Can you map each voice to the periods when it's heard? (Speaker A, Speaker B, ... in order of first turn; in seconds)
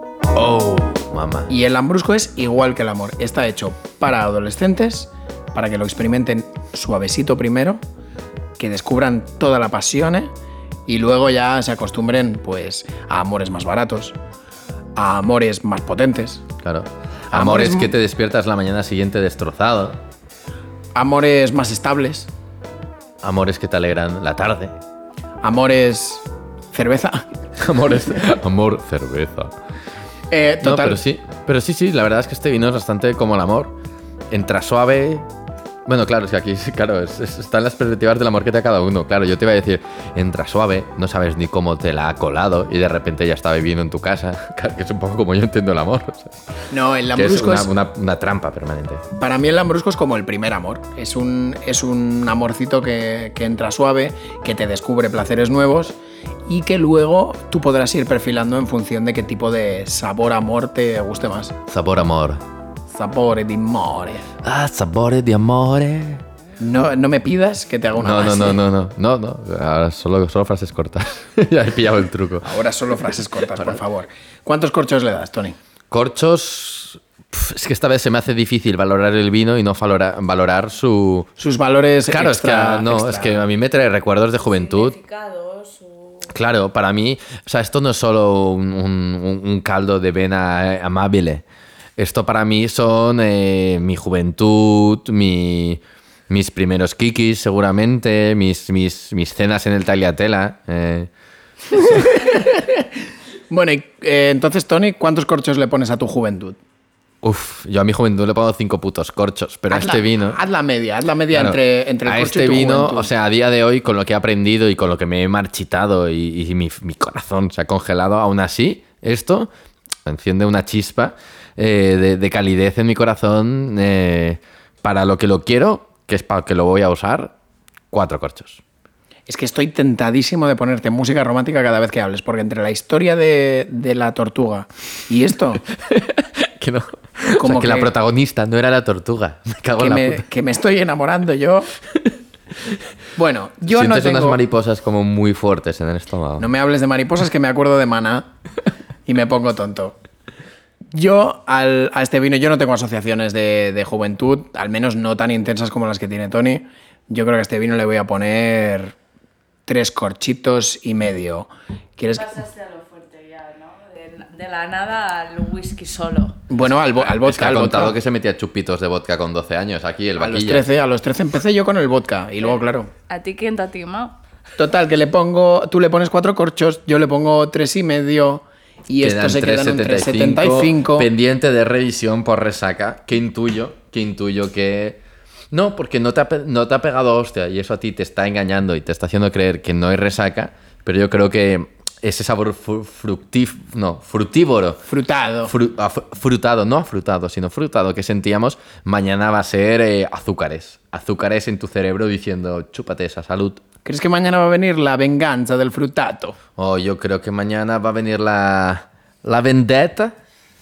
Speaker A: 0.3-1.5, 16.6-20.0, 23.2-24.8, 27.6-29.6, 30.6-33.8, 34.3-35.3, 35.9-46.4, 47.1-49.0, 61.7-62.4, 64.4-66.2, 68.0-72.5, 75.9-81.3, 82.0-85.0, 86.3-91.4, 92.0-101.1, 107.2-110.4, 111.3-119.5, 120.1-127.3, 127.9-128.6, 135.7-140.2, 143.7-146.5, 167.0-170.7, 179.0-185.0, 185.5-194.9, 195.4-203.6, 206.6-210.2
Speaker B: 1.5-7.8, 8.6-10.3, 10.9-14.2, 14.9-16.4, 17.3-17.9, 21.0-22.3, 25.4-27.3, 30.3-31.0, 46.7-47.7, 49.2-61.5, 62.9-64.3, 66.6-68.6, 72.4-75.6, 81.4-83.4, 102.0-102.8, 103.5-106.6, 109.7-113.1, 129.3-135.6, 137.4-137.9, 139.8-141.7, 143.2-144.4, 146.4-148.3, 149.1-150.0, 150.9-158.9, 159.7-162.3, 166.5-168.0, 170.2-172.9, 174.6-181.1, 194.9-195.5, 203.8-206.4
Speaker C: 84.4-86.3, 162.1-166.4, 173.1-174.2